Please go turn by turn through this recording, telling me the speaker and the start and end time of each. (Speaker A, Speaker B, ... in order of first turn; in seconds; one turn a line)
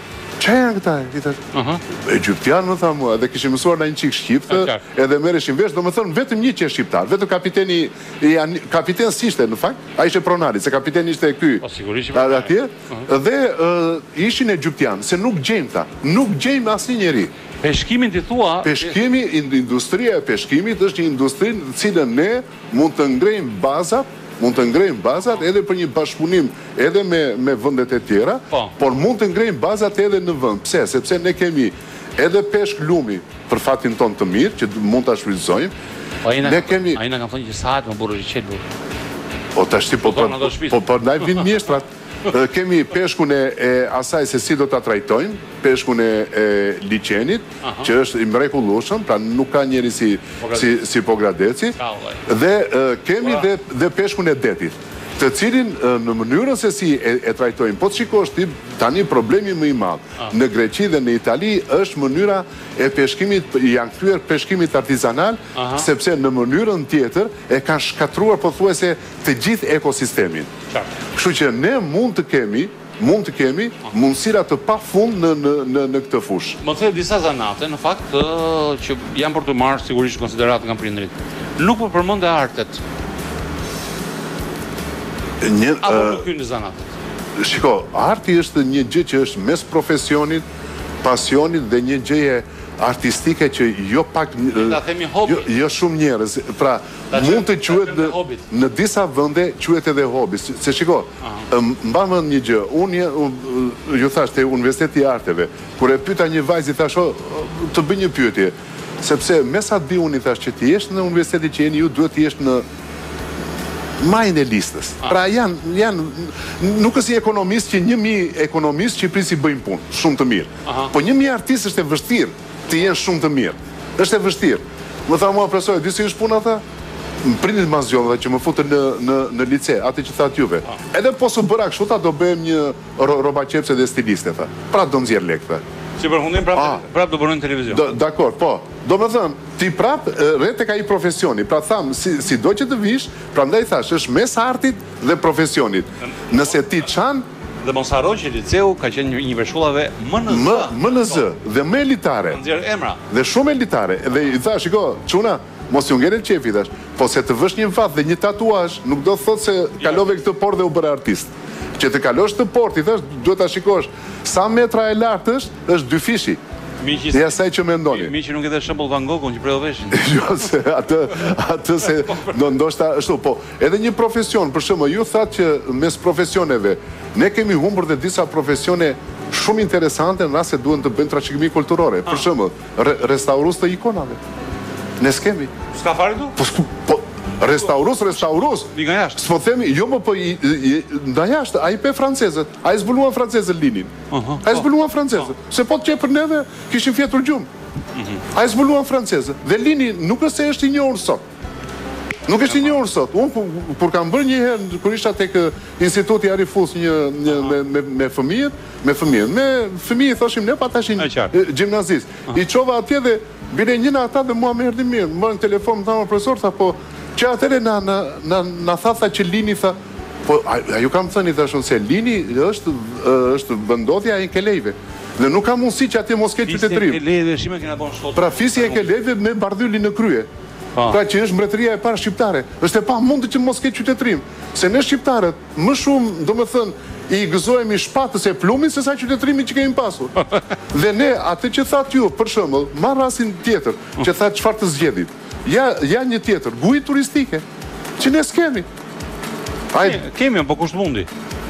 Speaker A: 0.4-1.4
Speaker B: 1.5-1.8
Speaker A: 2.0-17.3
Speaker B: 4.5-4.8
Speaker B: 11.6-13.1
Speaker B: 17.6-18.9
Speaker A: 18.6-35.7
Speaker B: 36.2-38.6
Speaker A: 36.4-37.0
Speaker A: 39.5-51.8
Speaker B: 40.0-41.5
Speaker B: 47.6-47.9
Speaker B: 50.4-50.7
Speaker B: 51.8-52.2
Speaker A: 52.3-70.5
Speaker B: 53.2-53.5
Speaker B: 65.5-65.9
Speaker A: 71.1-76.6
Speaker B: 76.6-82.8
Speaker A: 85.4-86.3
Speaker B: 85.8-86.9
Speaker A: 87.4-90.4
Speaker A: 91.0-112.6
Speaker B: 94.5-95.5
Speaker B: 97.1-98.5
Speaker A: 114.0-126.6
Speaker B: 120.7-120.9
Speaker A: 127.2-135.6
Speaker B: 136.0-137.8
Speaker A: 136.5-136.8
Speaker A: 137.7-147.2
Speaker B: 147.6-151.2
Speaker A: 150.3-152.4
Speaker B: 152.3-153.0
Speaker A: 153.1-166.4
Speaker B: 166.8-170.1
Speaker A: 167.1-168.1
Speaker A: 169.9-184.2
Speaker A: 185.0-185.5
Speaker B: 185.7-186.3
Speaker A: 186.4-193.9
Speaker B: 188.6-189.2
Speaker B: 194.1-195.3
Speaker A: 194.4-197.5
Speaker B: 197.9-198.2
Speaker A: 198.3-201.2
Speaker A: 202.3-227.0
Speaker B: 207.3-207.6
Speaker B: 211.0-211.3
Speaker B: 226.4-228.9
Speaker A: 228.1-230.3
Speaker A: 230.8-247.4
Speaker A: 248.0-248.7
Speaker A: 249.7-250.0
Speaker B: 249.7-251.1